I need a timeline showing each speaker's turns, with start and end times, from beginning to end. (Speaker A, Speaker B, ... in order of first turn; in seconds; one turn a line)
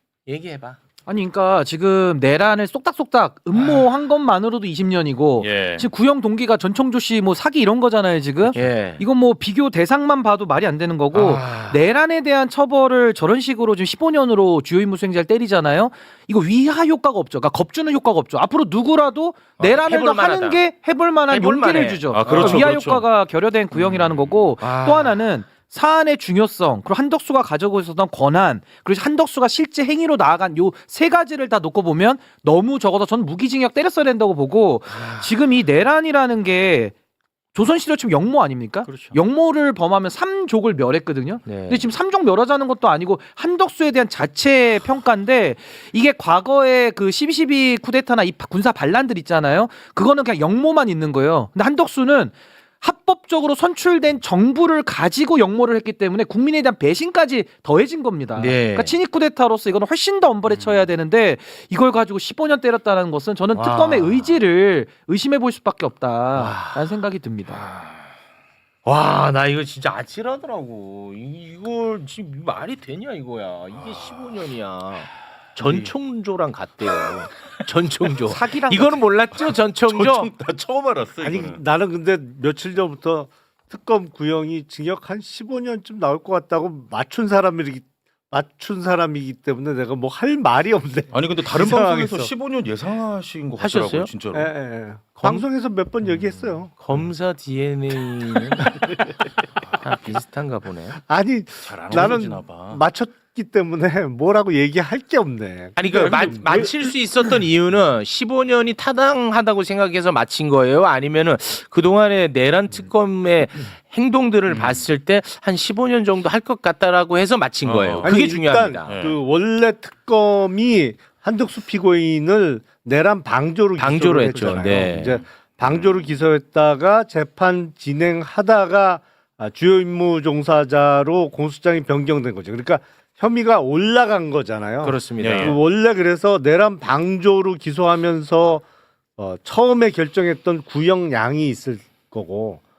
Speaker A: 0.3-0.8
Speaker B: 1.1-36.9
Speaker A: 3.5-3.9
Speaker C: 5.4-5.9
Speaker A: 8.5-9.0
Speaker A: 11.1-11.8
Speaker A: 19.6-20.7
Speaker A: 21.3-22.7
Speaker C: 22.1-23.1
Speaker A: 23.7-25.2
Speaker A: 34.9-35.3
Speaker B: 37.5-67.7
Speaker A: 41.5-41.9
Speaker A: 58.4-59.0
Speaker A: 63.5-64.4
Speaker A: 66.3-66.8
Speaker A: 68.8-80.3
Speaker B: 78.2-79.0
Speaker C: 79.8-81.6
Speaker D: 81.2-92.3
Speaker C: 91.1-94.5
Speaker A: 93.6-94.1
Speaker D: 94.3-96.7
Speaker A: 95.2-95.5
Speaker A: 96.8-98.8
Speaker A: 99.8-101.0
Speaker D: 101.0-106.9
Speaker C: 101.6-102.8
Speaker A: 105.8-119.0
Speaker C: 117.6-118.1
Speaker D: 118.0-138.7
Speaker C: 118.8-119.2
Speaker A: 123.8-125.2
Speaker C: 124.7-126.0
Speaker A: 134.8-135.6
Speaker C: 135.2-135.6
Speaker D: 139.2-142.6